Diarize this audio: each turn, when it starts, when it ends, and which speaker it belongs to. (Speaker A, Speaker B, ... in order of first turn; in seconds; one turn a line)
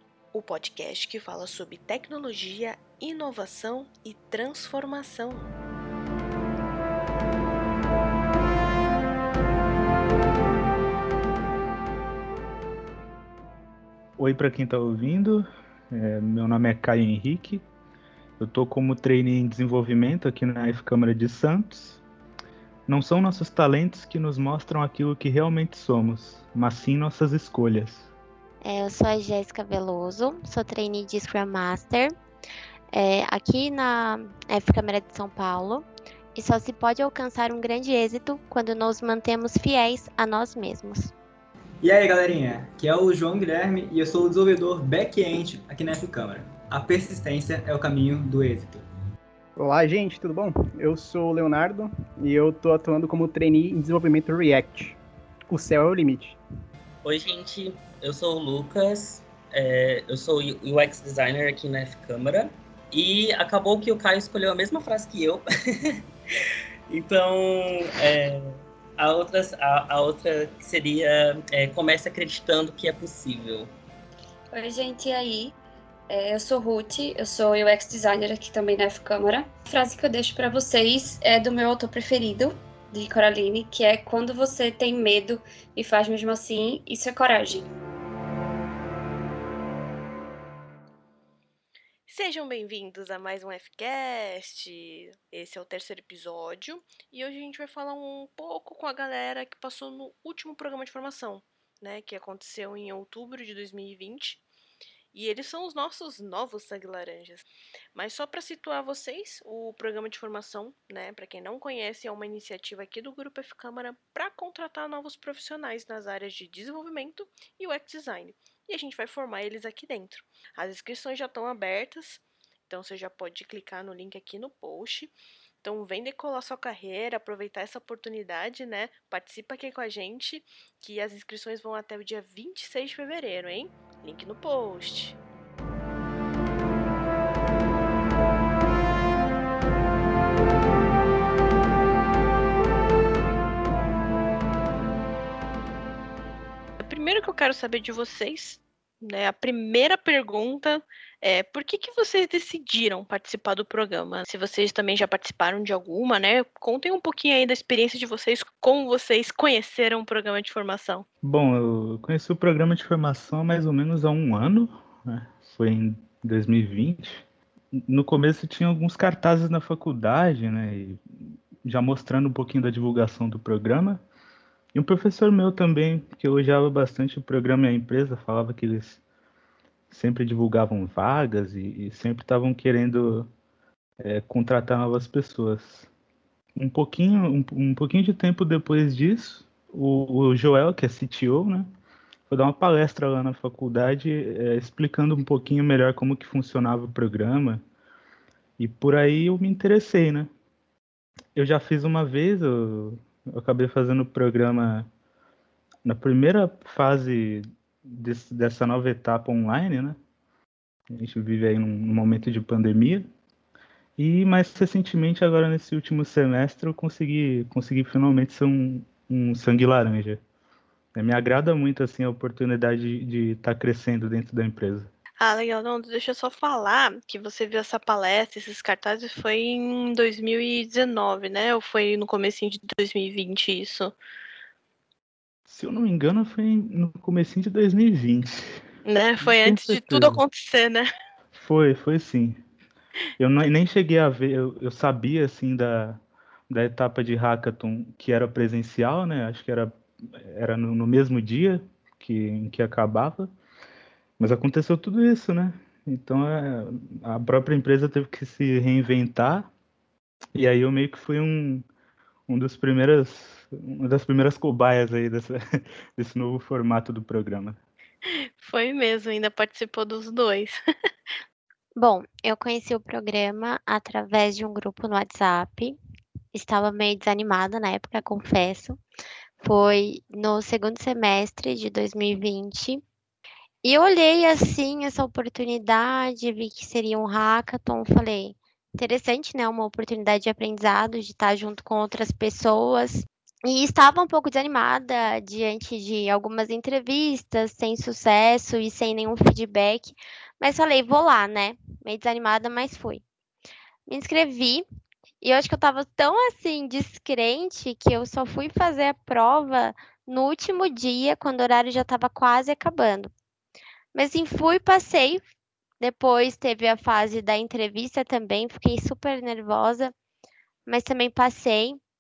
Speaker A: 0.3-5.5
Speaker B: 14.2-17.6
Speaker B: 18.4-22.0
Speaker B: 22.9-28.1
Speaker C: 28.6-32.1
Speaker C: 32.9-41.1
Speaker D: 41.8-48.8
Speaker E: 49.6-55.0
Speaker E: 55.5-56.4
Speaker F: 57.0-73.7
Speaker G: 74.5-75.6
Speaker G: 76.1-87.7
Speaker A: 92.1-104.4
Speaker A: 105.1-135.2
Speaker A: 146.8-161.1
Speaker B: 161.2-171.0
Speaker B: 171.6-174.0
Speaker B: 174.7-179.0
Speaker B: 179.9-183.3
Speaker B: 184.0-185.9
Speaker B: 186.6-191.7
Speaker B: 192.3-197.6
Speaker B: 198.6-200.3
Speaker B: 201.3-204.9
Speaker B: 205.8-210.0
Speaker B: 210.9-213.1
Speaker B: 214.0-220.2
Speaker B: 220.9-224.9
Speaker A: 225.2-233.9
Speaker B: 235.5-238.6
Speaker A: 238.8-240.9
Speaker B: 239.2-240.2
Speaker B: 241.3-242.4
Speaker B: 243.2-253.3
Speaker B: 254.2-259.5
Speaker B: 260.3-261.6
Speaker B: 262.3-267.6
Speaker A: 268.4-270.6
Speaker C: 271.8-275.8
Speaker C: 276.3-278.8
Speaker C: 279.4-282.8
Speaker C: 283.6-303.0
Speaker C: 303.9-304.6
Speaker C: 305.2-313.1
Speaker C: 313.9-315.2
Speaker C: 315.8-319.9
Speaker C: 320.6-321.8